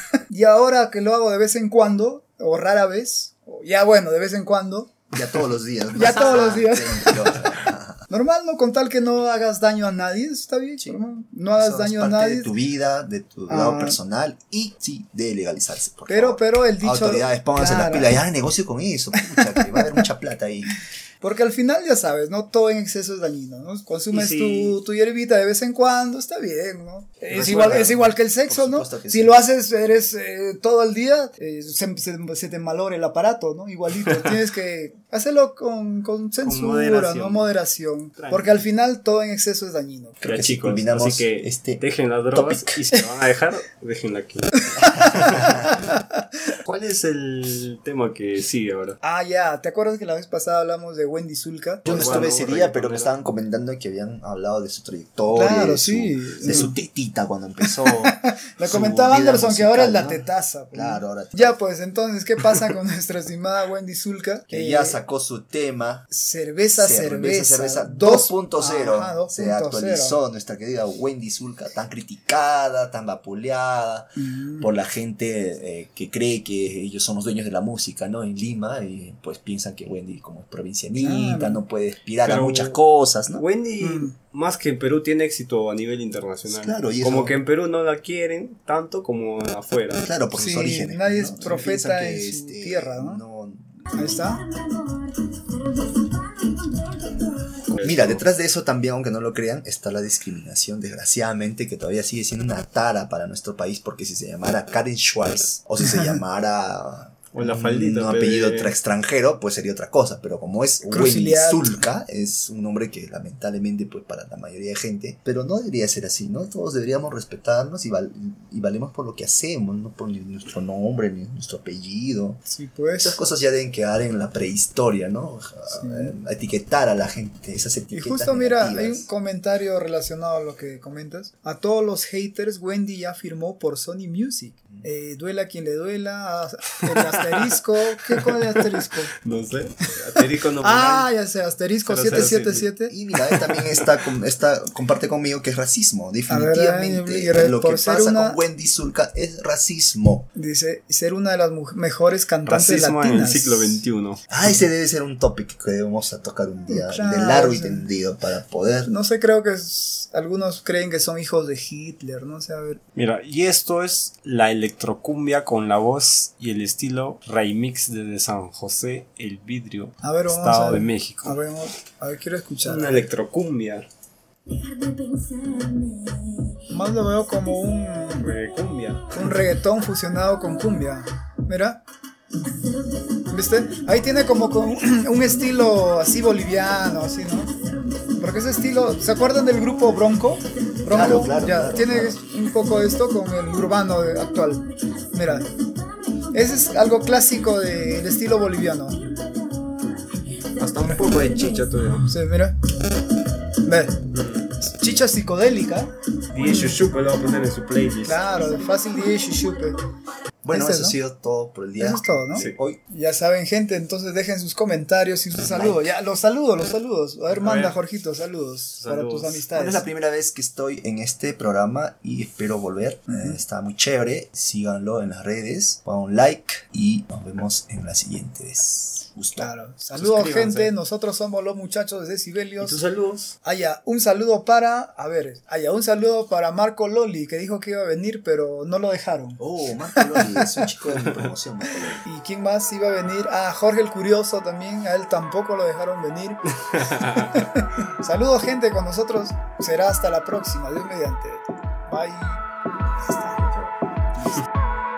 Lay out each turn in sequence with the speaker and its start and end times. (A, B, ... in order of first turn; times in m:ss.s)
0:00.3-0:05.0 A
0:05.1-0:08.1 B
0:05.9-0:07.4 A
0:08.1-0:12.5 A
0:11.5-0:20.7 B
0:13.5-0:14.0 A
0:16.1-0:18.1 A
0:19.3-0:19.8 A
0:21.2-0:40.2 A
0:24.1-0:24.8 C
0:27.3-0:29.4 B
0:27.4-0:27.8 C
0:34.1-0:34.3 C
0:36.4-0:37.5 C
0:38.2-0:38.6 C
0:40.2-0:42.8 B
0:40.2-0:45.6 C
0:44.8-0:45.7 B
0:45.0-0:46.2 A
0:46.6-0:49.0 C
0:49.0-0:52.3 A
0:51.8-0:53.1 C
0:51.8-1:01.6 B
0:55.3-0:56.7 A
0:57.8-1:05.0 A
1:04.5-1:06.1 B
1:06.1-1:10.2 A
1:06.8-1:23.4 B
1:14.2-1:14.7 A
1:21.0-1:21.6 A
1:22.2-1:22.8 C
1:23.3-1:30.1 C
1:23.8-1:24.1 A
1:26.5-1:27.4 B
1:30.0-1:34.2 B
1:30.3-1:33.2 A
1:33.9-1:34.5 A
1:37.7-1:38.2 C
1:37.8-2:02.4 B
1:47.3-1:48.7 C
1:50.9-1:51.8 A
2:02.4-2:03.2 A
2:03.0-2:09.1 B
2:05.7-2:06.1 A
2:07.9-2:19.1 A
2:17.0-2:17.2 C
2:18.1-2:21.1 C
2:20.6-2:22.9 A
2:21.8-2:22.7 C
2:22.9-2:30.3 B
2:23.4-2:23.9 C
2:26.3-2:28.4 A
2:30.3-2:33.8 A
2:32.4-2:34.2 C
2:34.3-2:38.9 B
2:36.7-2:37.9 A
2:38.9-2:42.8 A
2:42.9-2:51.4 C
2:50.0-2:53.0 A
2:52.6-2:53.8 C
2:56.6-2:58.4 A
2:58.2-2:59.3 C
2:59.1-3:01.8 A
3:03.2-3:07.5 A
3:08.1-3:15.5 A
3:10.8-3:12.2 B
3:16.3-3:19.1 A
3:20.5-3:22.1 C
3:22.0-3:22.7 A
3:23.6-3:24.1 A
3:24.1-3:24.6 C
3:24.6-3:25.9 A
3:26.3-3:28.2 C
3:26.4-3:26.8 A
3:28.0-3:29.8 A
3:30.4-3:32.8 B
3:30.5-3:31.0 A
3:31.8-3:39.8 A
3:35.4-3:35.9 B
3:37.3-3:37.8 C
3:38.8-3:39.4 C
3:39.5-3:49.5 B
3:43.1-3:43.4 A
3:49.4-3:52.8 A
3:50.0-3:50.7 C
3:52.6-3:53.3 C
3:53.4-3:59.4 A
3:59.4-4:02.0 B
3:59.9-4:00.7 A
4:02.0-4:12.4 A
4:06.7-4:07.5 C
4:13.0-4:14.4 B